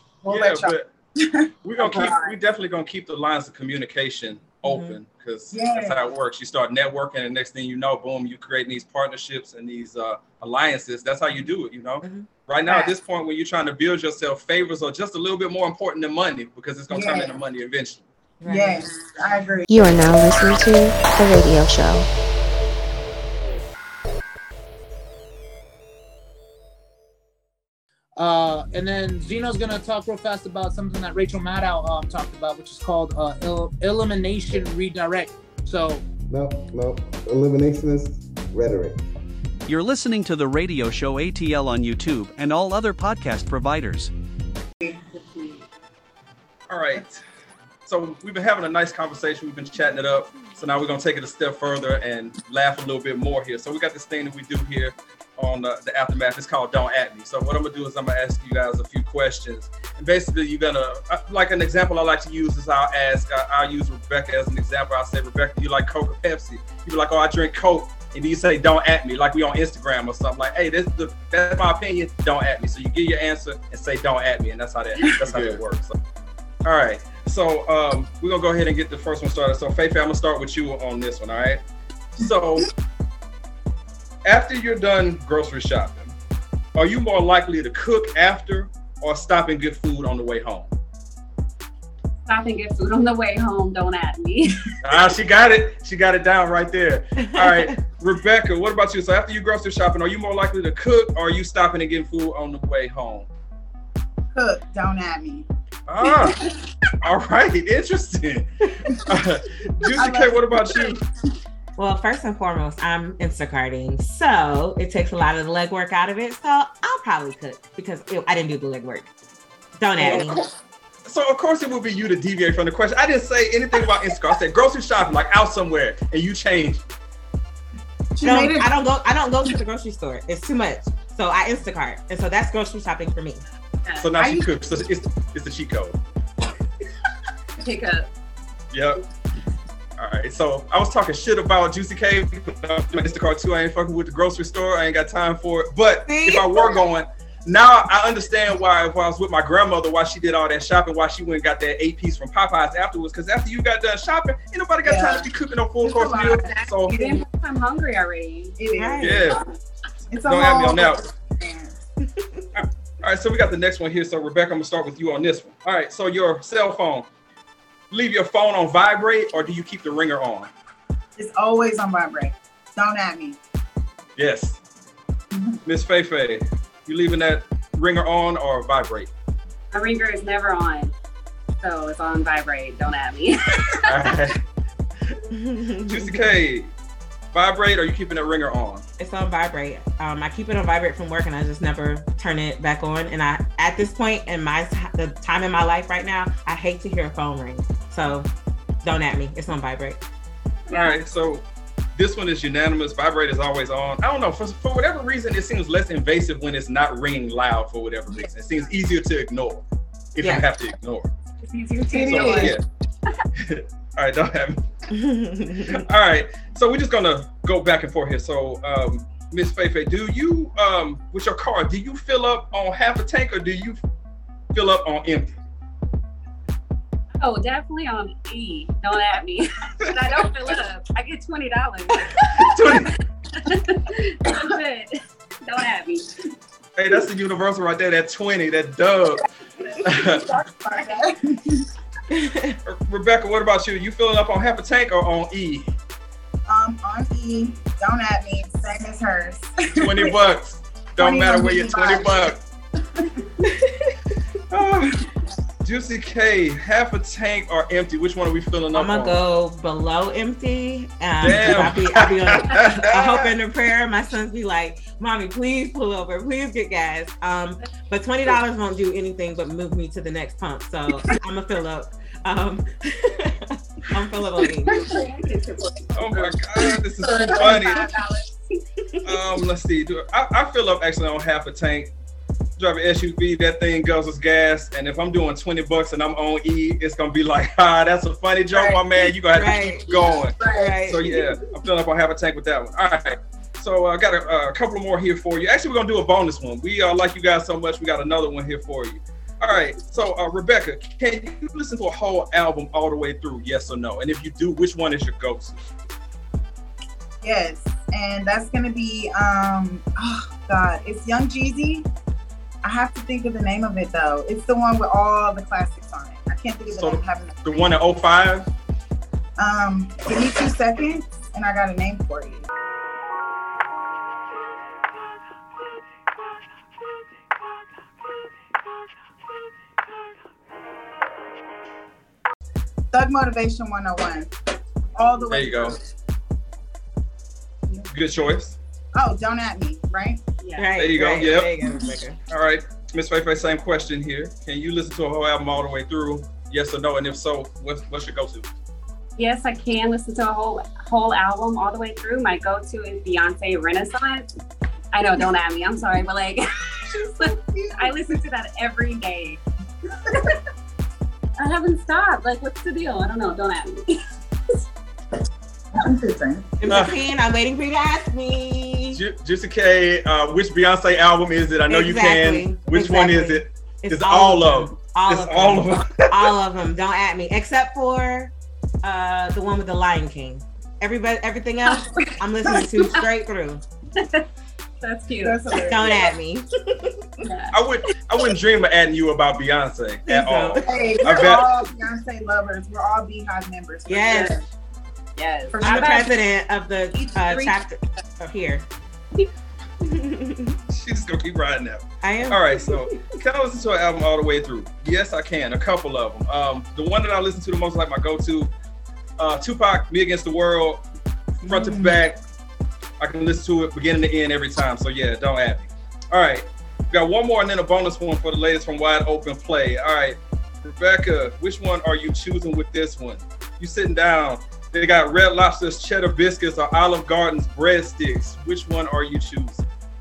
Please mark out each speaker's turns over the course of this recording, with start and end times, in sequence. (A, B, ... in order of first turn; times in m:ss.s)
0:00.2-0:01.5 A
0:00.2-0:00.9 B
0:01.6-0:18.0 B
0:01.8-0:02.4 C
0:04.6-0:05.0 D
0:05.5-0:06.1 A
0:12.0-0:12.3 D
0:12.6-0:12.9 A
0:16.9-0:17.4 A
0:18.4-0:18.8 D
0:18.4-0:19.6 A
0:19.7-0:22.1 E
0:28.2-0:36.0 F
0:36.3-0:39.0 G
0:39.7-0:44.1 H
0:45.1-0:45.6 C
0:46.7-0:47.2 B
0:47.8-1:16.0 B
1:16.6-1:21.6 B
1:22.2-1:22.7 B
1:24.2-1:26.1 B
1:26.7-1:30.7 B
1:32.2-1:34.6 C
1:34.8-1:43.3 B
1:37.4-1:37.7 D
1:44.3-1:45.5 A
1:45.9-1:46.5 B
1:47.0-1:51.0 B
1:49.9-1:51.0 A
1:51.8-1:59.1 D
1:59.8-2:00.4 D
2:00.0-2:00.4 A
2:00.1-2:00.4 B
2:01.0-2:06.8 B
2:08.1-2:08.7 A
2:08.2-2:13.4 D
2:14.0-2:16.0 B
2:14.2-2:14.5 A
2:17.6-2:18.1 C
2:18.7-2:19.0 B
2:20.0-2:36.9 B
2:26.1-2:26.7 D
2:34.8-2:35.3 A
2:35.8-2:37.2 A
2:36.9-2:38.6 C
2:38.6-2:39.4 A
2:38.8-2:39.2 D
2:39.0-2:39.4 B
2:39.2-2:39.5 C
2:40.1-2:41.8 A
2:40.2-2:41.0 B
2:42.5-2:47.1 B
2:47.9-2:50.5 B
2:51.2-2:53.4 A
2:54.2-2:54.6 B
2:55.3-2:55.6 A
2:55.6-2:59.1 B
2:59.7-3:00.9 C
3:01.6-3:04.2 C
3:03.8-3:04.4 B
3:05.4-3:06.2 D
3:05.8-3:06.7 B
3:07.3-3:08.8 B
3:09.0-3:18.3 D
3:18.8-3:20.0 D
3:20.7-3:21.0 C
3:20.7-3:29.6 B
3:30.1-3:31.1 B
3:30.2-3:30.5 D
3:31.4-3:32.6 C
3:31.8-3:32.6 A
3:32.1-3:32.6 B
3:33.4-3:34.6 B
3:34.9-3:35.8 D
3:35.7-3:43.8 B
3:44.5-3:45.3 B
3:47.2-3:56.1 C
3:52.3-3:53.0 B
3:56.8-3:59.2 B
3:59.6-4:01.0 C
3:59.8-4:00.2 B
3:59.8-4:01.6 A
4:02.1-4:02.6 D
4:02.6-4:05.7 B
4:06.5-4:10.1 A
4:09.8-4:12.4 B
4:11.0-4:12.3 A
4:13.4-4:13.9 D
4:14.5-4:15.0 B
4:15.6-4:19.2 B
4:18.7-4:34.8 D
4:21.2-4:23.3 B
4:34.6-4:35.1 A
4:34.7-4:38.6 C
4:36.0-4:37.9 B
4:37.0-4:37.9 A
4:39.0-4:41.9 B
4:42.6-5:05.6 B
4:48.5-4:48.8 A
4:49.3-4:49.9 D
4:50.0-4:51.0 A
4:50.5-4:51.1 D
5:07.2-5:11.9 A
5:12.6-5:17.6 A
5:16.7-5:18.5 B
5:19.4-5:22.4 A
5:32.9-5:34.3 A
5:34.9-5:35.8 A
5:35.3-5:35.8 B
5:37.9-5:38.6 B
5:38.9-5:40.2 A
5:40.4-5:40.7 C
5:40.6-5:42.2 D
5:40.8-5:41.6 B
5:42.3-5:48.5 B
5:49.2-5:54.3 C
5:54.9-5:59.4 C
5:56.9-5:58.2 A
6:01.4-6:04.6 C
6:05.7-6:06.5 A
6:06.6-6:09.0 D
6:06.6-6:07.0 B
6:08.9-6:16.3 B
6:11.7-6:18.3 D
6:18.8-6:23.6 D
6:21.7-6:22.8 C
6:24.0-6:24.3 C
6:24.8-6:25.7 C
6:25.2-6:26.1 A
6:25.7-6:26.4 D
6:27.2-6:27.6 C
6:27.5-6:31.5 B
6:30.1-6:31.0 D
6:30.6-6:34.4 A
6:33.9-6:34.4 D
6:34.1-6:34.4 C
6:35.2-6:36.0 C
6:35.5-6:36.1 A
6:35.6-6:38.7 D
6:36.9-6:37.6 A
6:39.8-6:40.6 D
6:40.7-6:48.5 B
6:42.0-6:42.5 D
6:49.2-6:50.8 B
6:51.4-6:52.2 B
6:51.5-6:52.0 A
6:53.0-7:09.6 B